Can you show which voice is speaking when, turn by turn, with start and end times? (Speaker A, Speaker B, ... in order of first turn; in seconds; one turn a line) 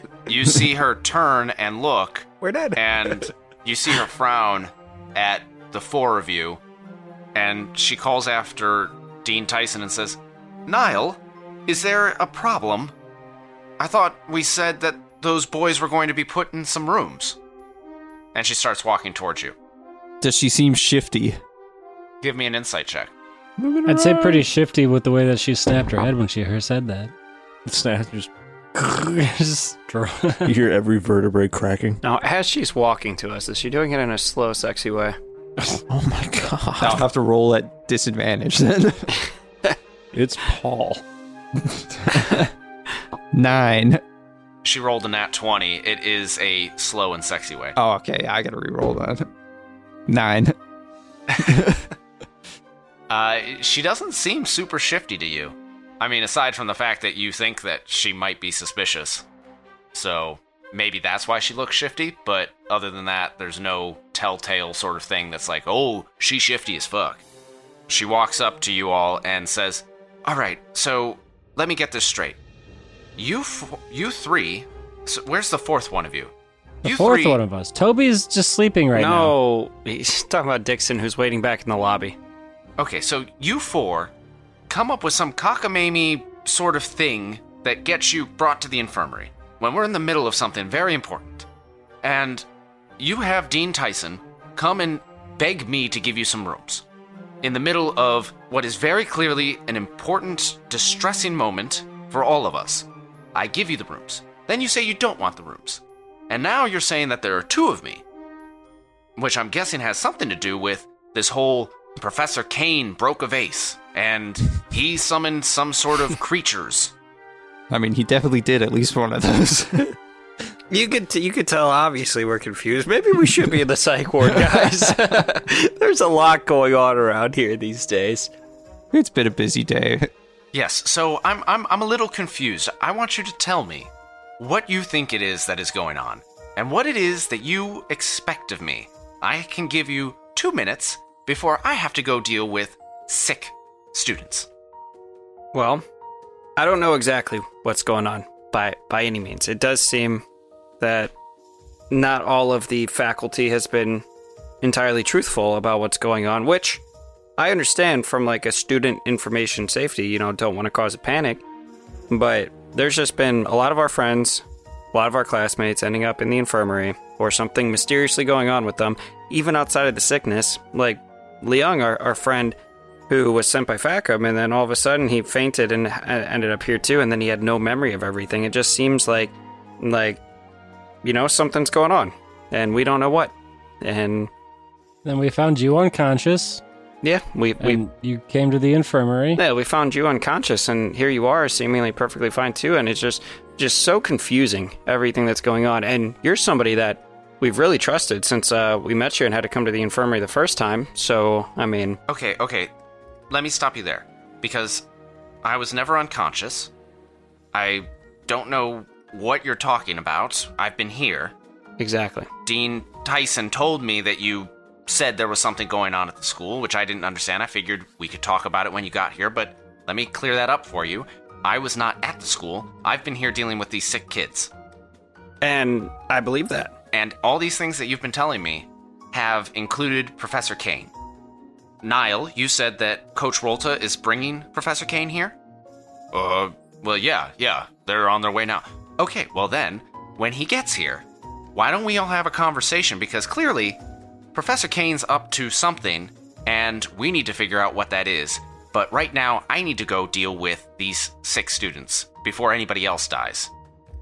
Speaker A: 0.2-6.6
Speaker B: 2.4-3.2
Speaker A: 7.3-12.9
Speaker A: 13.8-17.4
Speaker A: 18.3-19.5
Speaker C: 20.2-21.4
Speaker A: 22.2-23.1
Speaker D: 23.6-24.4
Speaker E: 23.9-27.1
Speaker D: 27.6-28.3
Speaker E: 28.7-30.5
Speaker D: 30.4-32.0
Speaker B: 32.0-35.1
Speaker D: 35.6-37.0
Speaker C: 36.8-39.2
Speaker D: 40.1-41.0
Speaker C: 41.6-42.5
Speaker C: 43.3-44.0
Speaker A: 44.6-47.8
Speaker C: 47.8-49.3
Speaker C: 50.1-50.5
Speaker C: 51.4-51.8
Speaker A: 53.1-59.2
Speaker A: 59.9-67.2
Speaker A: 67.9-72.4
Speaker A: 73.2-76.3
Speaker A: 76.8-77.4
Speaker E: 76.8-79.3
Speaker B: 78.9-82.2
Speaker A: 82.8-84.1
Speaker A: 84.7-91.5
Speaker A: 92.0-92.4
Speaker A: 93.0-96.8
Speaker A: 97.4-108.0
Speaker A: 109.2-116.9
Speaker C: 117.7-119.9
Speaker B: 120.7-128.3
Speaker C: 128.9-130.1
Speaker A: 130.5-144.5
Speaker B: 145.5-145.8
Speaker B: 146.6-150.2
Speaker B: 150.8-151.1
Speaker B: 151.9-154.0
Speaker B: 154.6-156.8
Speaker B: 157.4-161.4
Speaker B: 162.1-172.5
Speaker B: 173.1-180.2
Speaker B: 181.0-184.3
Speaker E: 185.0-186.6
Speaker B: 187.0-187.8
Speaker E: 187.6-189.4
Speaker B: 189.4-202.0
Speaker A: 202.1-202.7
Speaker A: 203.3-204.8
Speaker A: 205.4-206.7
Speaker A: 207.5-211.3
Speaker B: 211.8-212.3
Speaker A: 212.4-224.5
Speaker B: 225.4-226.7
Speaker A: 226.9-230.9
Speaker A: 231.8-235.3
Speaker A: 236.1-243.8
Speaker A: 244.3-253.5